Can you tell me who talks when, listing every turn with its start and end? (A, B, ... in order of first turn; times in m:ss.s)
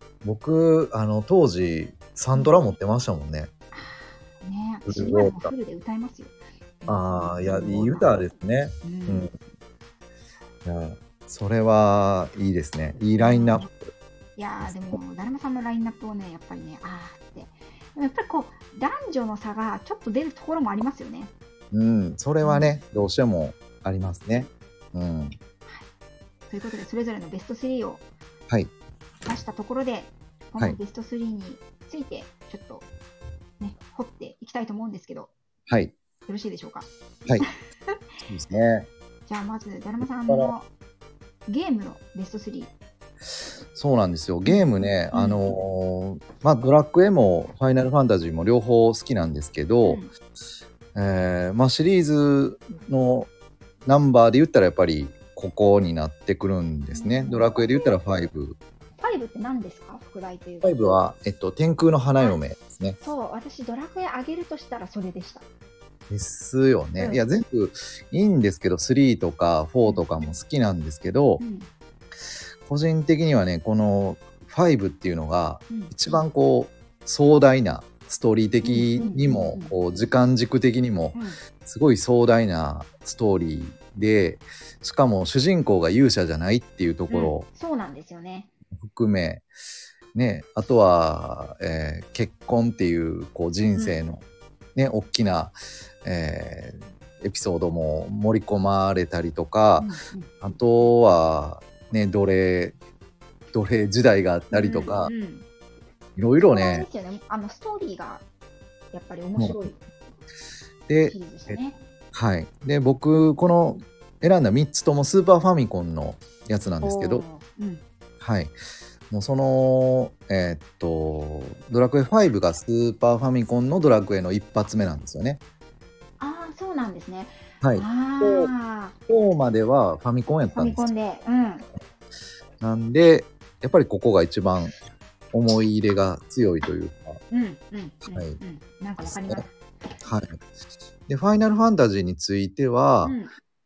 0:00.2-0:03.5 A
0:02.3-0:02.7 B
0:03.7-0:08.1 B
0:04.8-0:05.5 A
0:06.9-0:09.3 A
0:08.8-0:09.3 B
0:10.6-0:13.9 A
0:13.2-0:13.7 B
0:14.4-0:21.3 B
0:14.6-0:15.0 A
0:21.7-0:25.3 A
0:22.4-0:22.8 B
0:26.5-0:28.0 B
0:29.2-0:32.8 B
0:33.6-0:35.3 B
0:35.7-0:36.0 A
0:36.2-0:36.9 B
0:38.2-0:38.9 A
0:39.3-0:40.7 B
0:40.0-0:40.5 A
0:41.5-0:42.7 B
0:43.7-0:50.0 A
0:44.4-0:45.4 B
0:49.8-0:50.1 B
0:50.9-0:53.3 A
0:53.8-0:58.6 A
0:56.9-0:58.0 B
0:59.0-1:00.8 B
1:00.6-1:03.0 A
1:03.0-1:05.4 B
1:06.1-1:11.4 A
1:07.0-1:07.3 B
1:09.8-1:10.3 B
1:11.4-1:11.7 B
1:12.6-1:27.5 A
1:15.7-1:16.2 B
1:18.6-1:19.7 B
1:21.1-1:21.4 B
1:27.1-1:28.5 B
1:28.7-1:29.4 A
1:30.1-1:34.2 A
1:33.7-1:34.0 B
1:34.7-1:39.9 A
1:39.8-1:40.3 B
1:40.4-1:42.8 A
1:43.5-1:45.1 A
1:44.5-1:45.4 B
1:46.2-1:46.9 A
1:46.4-1:48.2 B
1:48.9-1:49.8 B
1:50.9-1:51.6 A
1:51.0-1:51.8 B
1:52.1-1:57.2 A
1:56.8-1:57.8 B
1:58.2-1:58.5 A
1:59.1-2:05.4 A
2:06.2-2:09.0 B
2:07.6-2:08.5 A
2:09.1-2:10.9 A
2:10.5-2:11.6 B
2:12.6-2:14.7 A
2:15.3-2:17.2 A
2:17.3-2:19.5 B
2:18.1-2:18.4 A
2:19.0-2:19.4 A
2:20.0-2:20.3 A
2:21.1-2:23.2 A
2:23.0-2:23.3 B